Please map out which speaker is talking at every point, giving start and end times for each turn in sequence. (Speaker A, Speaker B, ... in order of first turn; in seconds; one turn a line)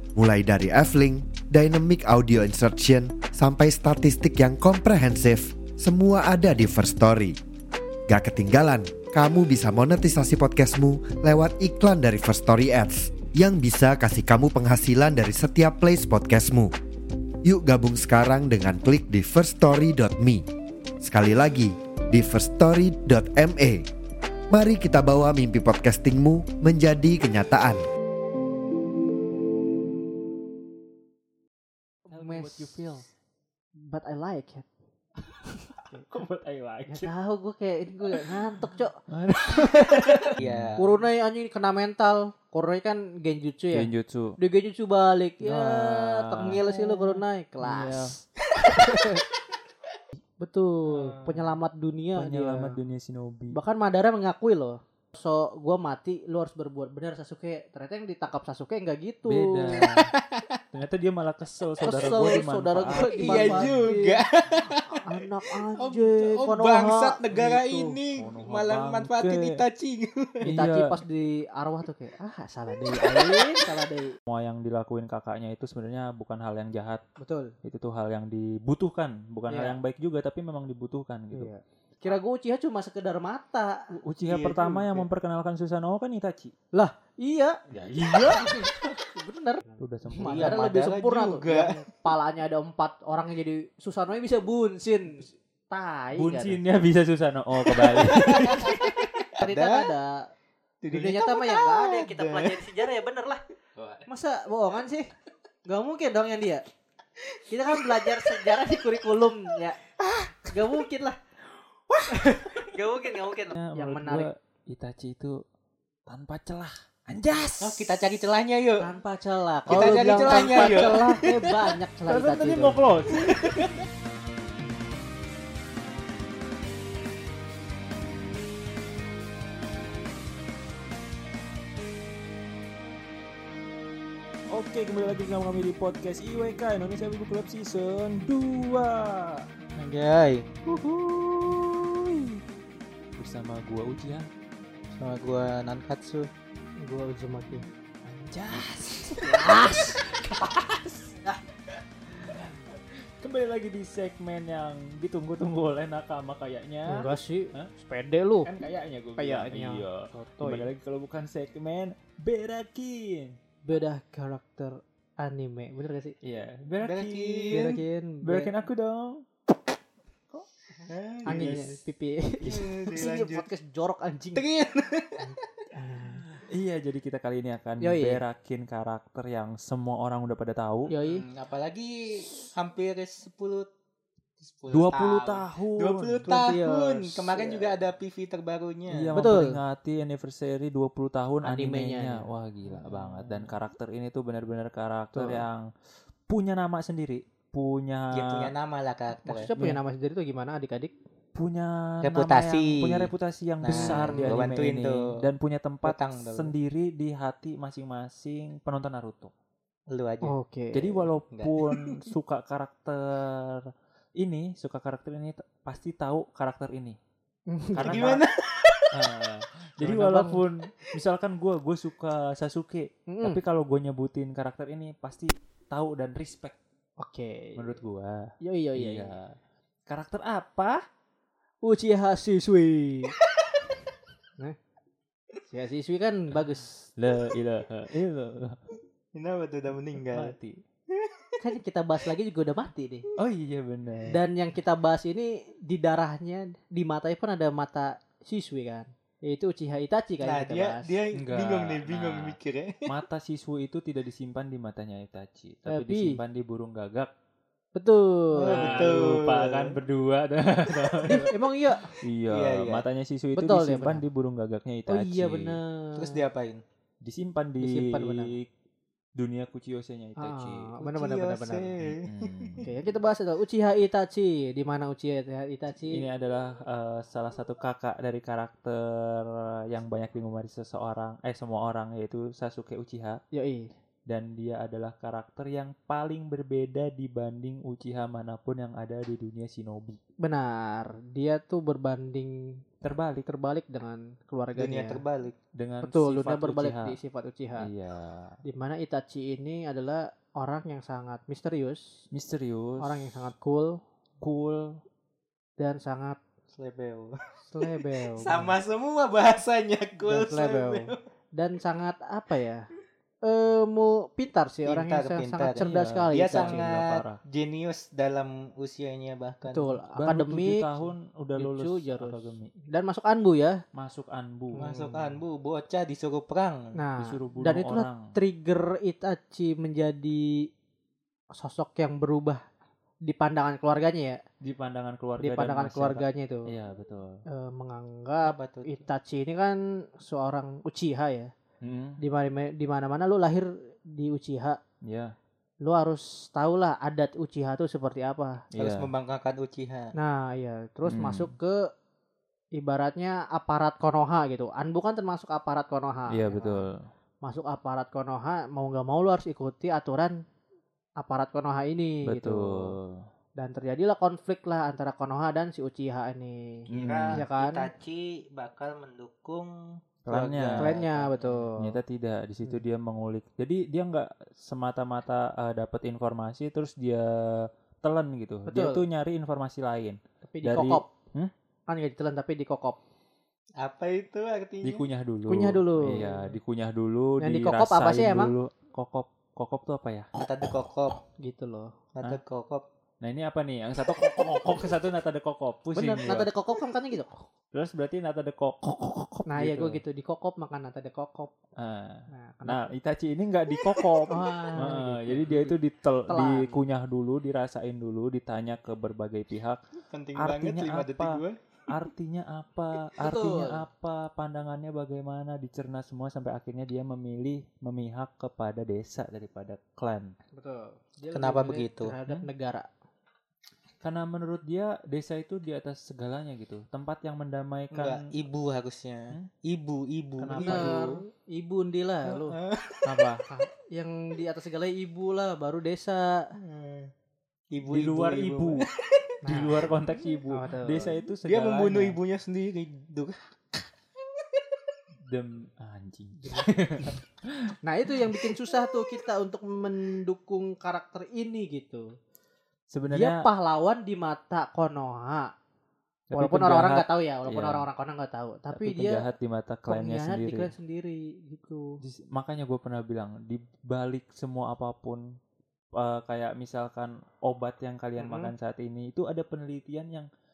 Speaker A: 0.1-7.4
Speaker A: 8.1-16.7
Speaker A: 17.4-20.4
Speaker A: 21.0-23.9
Speaker A: 24.5-27.9
Speaker B: 32.1-33.0
Speaker C: 32.1-33.0
Speaker B: 33.8-34.7
Speaker C: 35.2-37.1
Speaker B: 36.9-39.0
Speaker C: 39.1-40.8
Speaker B: 40.1-48.1
Speaker D: 40.4-41.0
Speaker C: 43.7-44.4
Speaker C: 45.4-48.1
Speaker B: 48.7-49.2
Speaker B: 50.4-52.8
Speaker D: 50.9-51.5
Speaker C: 52.1-53.6
Speaker B: 53.5-59.8
Speaker C: 59.3-60.1
Speaker D: 59.7-60.6
Speaker C: 60.7-63.9
Speaker D: 61.8-62.3
Speaker B: 61.8-64.2
Speaker D: 62.9-70.5
Speaker B: 64.9-68.0
Speaker C: 68.1-69.6
Speaker C: 70.4-70.8
Speaker B: 70.5-74.2
Speaker D: 72.9-73.7
Speaker C: 74.3-77.0
Speaker B: 77.2-77.5
Speaker C: 77.6-81.5
Speaker B: 79.5-79.8
Speaker B: 81.3-83.9
Speaker C: 83.9-86.5
Speaker D: 84.3-85.1
Speaker B: 86.7-96.6
Speaker C: 87.7-88.6
Speaker C: 89.8-90.6
Speaker D: 90.2-91.9
Speaker C: 96.2-98.8
Speaker D: 97.8-99.9
Speaker B: 98.4-98.8
Speaker B: 99.4-100.3
Speaker D: 100.8-102.6
Speaker B: 100.9-103.4
Speaker D: 103.8-104.0
Speaker B: 104.1-105.1
Speaker B: 105.7-106.6
Speaker B: 107.5-109.8
Speaker D: 107.7-108.4
Speaker D: 110.0-110.3
Speaker B: 110.5-111.2
Speaker B: 112.1-114.3
Speaker D: 112.6-113.0
Speaker C: 113.5-115.4
Speaker C: 116.1-118.0
Speaker D: 117.6-118.9
Speaker B: 118.8-122.8
Speaker D: 119.7-121.7
Speaker C: 119.7-121.0
Speaker C: 122.1-123.7
Speaker D: 123.1-123.8
Speaker C: 134.5-139.5
Speaker D: 139.8-140.5
Speaker C: 140.7-142.4
Speaker C: 143.2-144.3
Speaker D: 145.0-146.3
Speaker B: 146.8-147.7
Speaker C: 148.1-151.3
Speaker B: 149.2-150.0
Speaker C: 152.2-157.7
Speaker B: 156.9-158.5
Speaker C: 158.4-163.4
Speaker B: 159.2-160.7
Speaker B: 163.7-166.2
Speaker C: 166.2-169.2
Speaker D: 166.8-167.8
Speaker B: 167.5-168.5
Speaker D: 170.9-171.8
Speaker C: 171.3-171.7
Speaker B: 171.3-174.4
Speaker C: 172.4-172.7
Speaker D: 172.4-173.5
Speaker D: 174.4-175.7
Speaker B: 175.2-176.3
Speaker C: 176.5-180.9
Speaker B: 177.8-178.2
Speaker B: 180.9-181.3
Speaker D: 181.0-183.7
Speaker D: 184.4-189.2
Speaker C: 184.7-186.4
Speaker B: 186.3-187.7
Speaker C: 188.9-195.7
Speaker B: 189.2-189.6
Speaker B: 191.4-192.2
Speaker B: 192.9-193.4
Speaker B: 195.2-195.4
Speaker C: 196.3-198.5
Speaker D: 198.1-199.5
Speaker B: 199.3-200.9
Speaker C: 201.3-209.3
Speaker D: 202.0-203.1
Speaker D: 203.6-205.2
Speaker B: 203.7-204.5
Speaker D: 205.8-206.5
Speaker D: 209.9-210.3
Speaker B: 210.2-211.1
Speaker C: 210.7-213.7
Speaker D: 211.3-212.0
Speaker C: 214.2-217.0
Speaker B: 217.5-218.2
Speaker C: 217.7-218.2
Speaker D: 217.8-219.0
Speaker C: 218.9-226.6
Speaker B: 219.8-220.4
Speaker B: 223.1-223.4
Speaker B: 227.0-227.7
Speaker C: 227.6-229.3
Speaker B: 228.4-229.2
Speaker C: 229.9-230.8
Speaker B: 231.6-233.2
Speaker B: 235.5-236.9
Speaker C: 237.0-238.6
Speaker D: 239.1-240.3
Speaker C: 239.9-240.6
Speaker D: 240.9-241.4
Speaker B: 241.4-243.1
Speaker C: 243.2-244.2
Speaker B: 244.1-250.9
Speaker D: 250.2-252.9
Speaker C: 251.2-257.1
Speaker B: 255.7-256.2
Speaker B: 257.8-259.0
Speaker D: 258.4-259.8
Speaker C: 258.5-261.3
Speaker B: 261.1-262.0
Speaker C: 262.0-265.6
Speaker D: 262.3-262.8
Speaker B: 263.4-264.1
Speaker B: 264.9-266.2
Speaker D: 265.9-266.6
Speaker C: 267.0-268.5
Speaker B: 267.6-268.3
Speaker C: 269.2-270.7
Speaker B: 270.2-271.7
Speaker D: 270.8-272.7
Speaker C: 271.8-272.7
Speaker B: 272.6-276.0
Speaker C: 275.8-283.2
Speaker B: 283.3-283.7
Speaker C: 284.1-290.0
Speaker B: 290.2-292.6
Speaker C: 292.8-293.3
Speaker B: 293.3-295.0
Speaker D: 294.6-295.4
Speaker C: 295.6-297.0
Speaker B: 295.8-297.7
Speaker C: 297.6-298.4
Speaker B: 298.4-302.0
Speaker C: 302.1-303.1
Speaker B: 302.8-303.8
Speaker C: 304.2-304.8
Speaker B: 305.6-306.2
Speaker D: 306.5-311.0
Speaker B: 307.5-308.5
Speaker B: 310.0-312.6
Speaker B: 313.2-316.7
Speaker D: 314.6-319.8
Speaker C: 315.6-317.2
Speaker B: 319.5-320.7
Speaker C: 320.0-322.5
Speaker B: 321.4-323.6
Speaker C: 323.7-324.7
Speaker B: 324.5-325.1
Speaker D: 324.6-326.8
Speaker B: 326.8-330.5
Speaker C: 327.0-328.1
Speaker B: 331.4-332.4
Speaker B: 333.1-334.2
Speaker C: 334.4-337.2
Speaker B: 335.2-336.5
Speaker B: 337.3-341.3
Speaker D: 338.2-338.9
Speaker C: 341.6-342.0
Speaker B: 342.0-344.6
Speaker C: 344.9-345.1
Speaker B: 345.6-348.4
Speaker C: 348.5-348.9
Speaker D: 348.6-349.9
Speaker B: 350.0-351.7
Speaker C: 350.9-351.3
Speaker B: 352.6-356.7
Speaker C: 356.1-356.9
Speaker B: 357.2-360.1
Speaker B: 361.0-362.8
Speaker C: 362.1-363.1
Speaker B: 363.4-367.7
Speaker C: 366.7-367.2
Speaker D: 366.7-371.2
Speaker C: 370.1-370.8
Speaker B: 370.6-371.8
Speaker C: 371.6-381.3
Speaker B: 378.5-378.8
Speaker B: 380.2-380.9
Speaker B: 381.7-382.8
Speaker D: 383.6-384.9
Speaker C: 384.6-390.1
Speaker B: 385.3-386.3
Speaker B: 387.2-388.3
Speaker D: 390.1-391.0
Speaker B: 391.2-391.7
Speaker D: 391.9-392.6
Speaker C: 393.0-396.3
Speaker B: 395.8-397.3
Speaker C: 397.5-399.8
Speaker B: 399.3-401.3
Speaker C: 401.6-409.6
Speaker B: 402.1-402.7
Speaker B: 404.1-405.6
Speaker B: 406.1-406.6
Speaker D: 409.9-411.4
Speaker C: 410.2-420.1
Speaker B: 413.0-413.6
Speaker B: 420.4-422.7
Speaker D: 421.1-421.9
Speaker C: 423.8-428.1
Speaker D: 427.7-431.0
Speaker C: 430.2-431.0
Speaker B: 430.4-432.4
Speaker D: 432.1-433.1
Speaker C: 432.8-433.2
Speaker B: 433.3-436.3
Speaker D: 436.4-436.9
Speaker D: 437.5-439.3
Speaker C: 437.7-438.7
Speaker B: 439.2-439.7
Speaker C: 439.3-442.0
Speaker B: 440.3-441.0
Speaker D: 441.3-443.7
Speaker D: 444.2-444.6
Speaker C: 445.1-447.5
Speaker B: 446.2-446.5
Speaker B: 447.6-451.9
Speaker C: 452.7-453.3
Speaker B: 452.9-455.3
Speaker C: 456.1-457.7
Speaker B: 456.1-459.1
Speaker C: 458.5-460.5
Speaker B: 459.7-461.7
Speaker C: 461.8-465.1
Speaker C: 465.8-470.1
Speaker B: 468.0-468.3